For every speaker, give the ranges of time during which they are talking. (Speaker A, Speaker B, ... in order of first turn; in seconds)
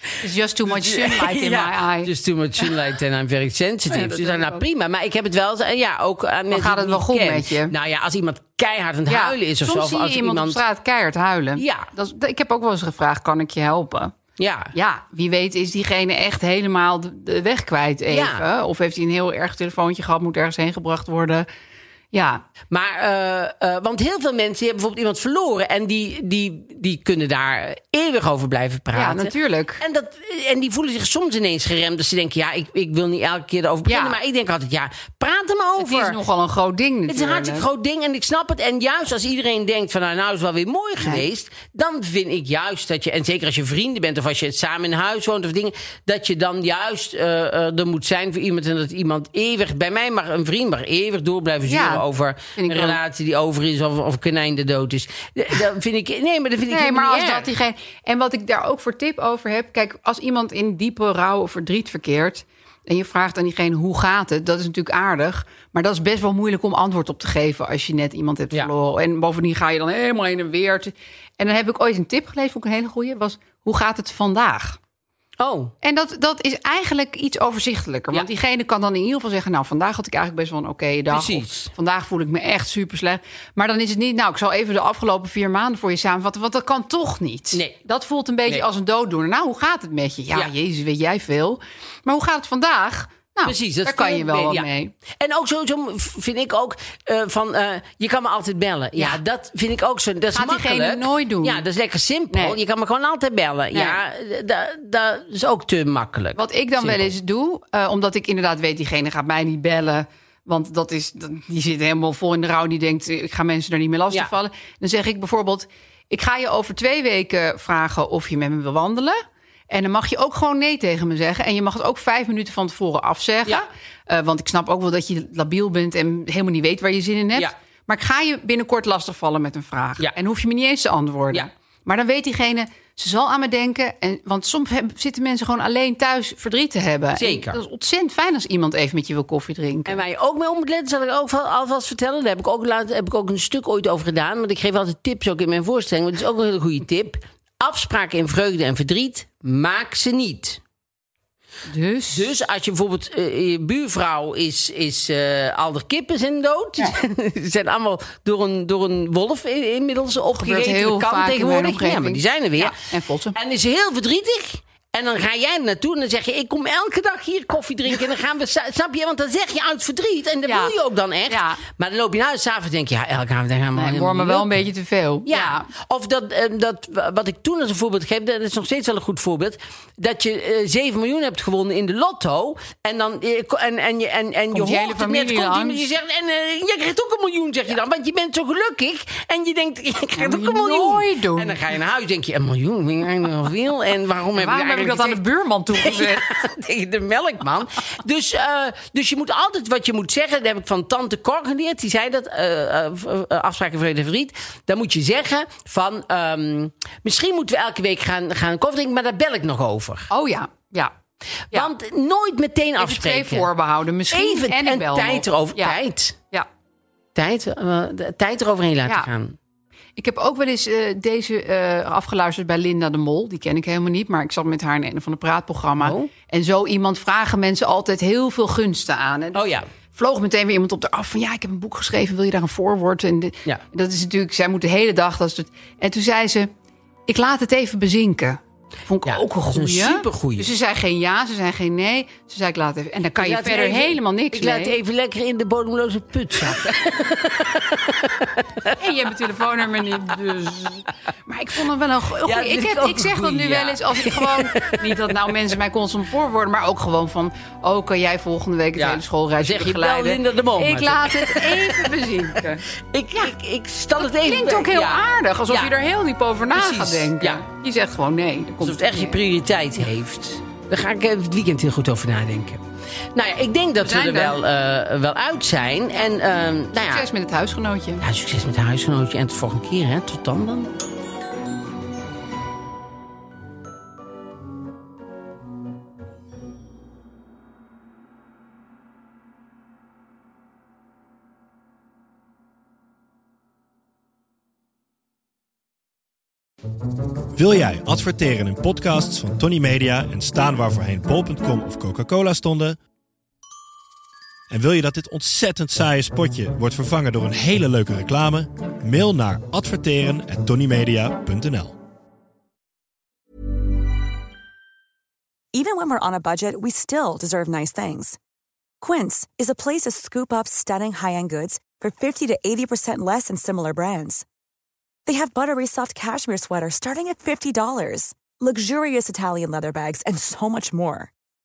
Speaker A: 0.2-2.1, 3.9-4.6, 6.5-7.7, 9.1-14.1, 14.7-21.5, 22.1-22.4, 28.9-29.8, 33.9-34.2, 35.8-37.6, 51.6-52.0, 52.5-53.0, 56.7-74.8, 75.8-94.9, 100.3-101.6, 102.3-102.6, 103.7-104.0, 106.3-119.2, 119.7-140.0, 151.7-152.3, 160.3-163.4, 170.4-170.7, 171.3-171.6, 173.7-175.7, 184.5-185.9, 190.1-191.6, 194.4-196.3, 210.1-210.9, 212.8-215.8, 220.0-236.5, 237.1-244.8, 248.8-263.3, 264.0-269.2, 273.8-274.4, 276.8-278.0
Speaker B: 0.7-10.6, 11.6-11.9, 14.4-14.7, 18.1-18.4, 22.7-36.2, 37.1-57.5, 75.4-75.7, 81.1-81.7, 87.5-87.8, 93.4-107.1, 137.2-137.6, 139.9-150.6, 152.1-162.8, 163.3-174.7, 175.2-195.2, 195.7-210.1, 211.5-213.5, 214.1-216.2, 217.1-219.3, 225.8-226.1, 229.3-229.6, 239.0-240.5, 243.2-248.8, 252.2-255.1, 258.8-265.7, 266.5-267.4, 268.6-272.6, 273.1-277.1, 278.0-280.7
Speaker C: 297.3-302.8, 304.5-311.8
Speaker D: 315.5-318.2, 318.8-324.2, 325.1-331.1